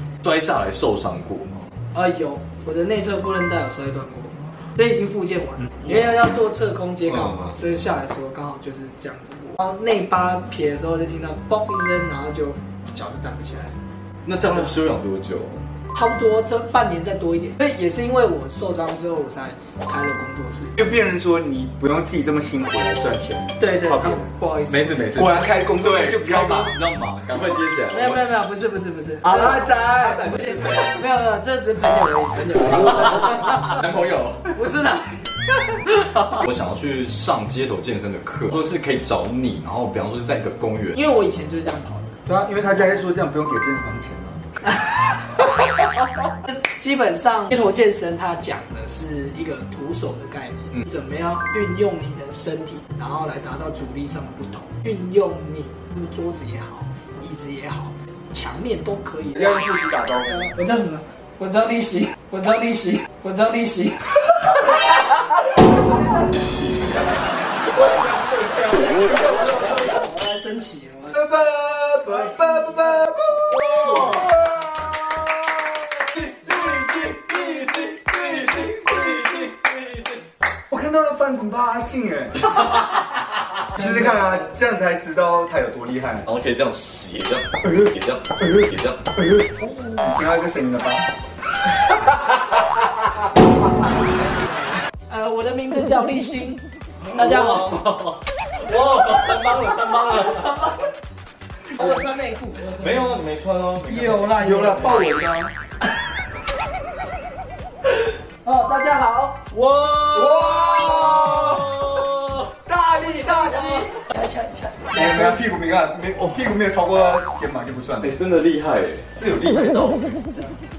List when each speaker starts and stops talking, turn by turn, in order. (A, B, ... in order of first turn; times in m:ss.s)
0:00.2-0:01.7 A
0:01.9-0:13.8 B
0:07.1-0:07.6 A
0:14.2-0:15.6 A
0:15.9-0:20.8 B
0:20.8-0:24.3 C
0:23.6-0:25.1 B
0:24.7-0:28.2 A
0:25.1-0:26.7 C
0:27.9-0:33.7 B
0:29.2-0:30.3 C
0:29.4-0:31.0 A
0:33.2-0:34.5 A
0:34.5-0:35.2 B
0:36.3-0:41.0 A
0:40.9-0:42.1 B
0:42.2-0:44.4 C
0:44.9-0:45.4 B
0:46.4-0:59.6 B
0:59.3-1:00.5 C
1:00.2-1:04.8 B
1:07.9-1:08.8 C
1:08.9-1:11.2 B
1:11.1-1:15.3 C
1:12.1-1:12.8 B
1:13.5-1:14.3 A
1:16.0-1:20.2 A
1:20.7-1:22.4 C
1:22.8-1:23.2 A
1:23.7-1:26.3 C
1:26.2-1:29.2 A
1:29.2-1:31.1 C
1:34.1-1:36.6 B
1:37.0-1:40.7 A
1:37.1-1:37.8 B
1:40.4-1:40.7 B
1:41.7-1:43.2 B
1:42.7-1:44.7 A
1:43.8-1:45.0 B
1:44.4-1:45.5 C
1:48.4-1:49.4 B
1:49.5-1:52.5 A
1:50.4-1:51.4 C
1:52.7-1:53.9 C
1:53.0-1:55.4 B
1:53.3-1:53.8 A
1:54.9-1:58.2 C
1:58.0-2:00.2 A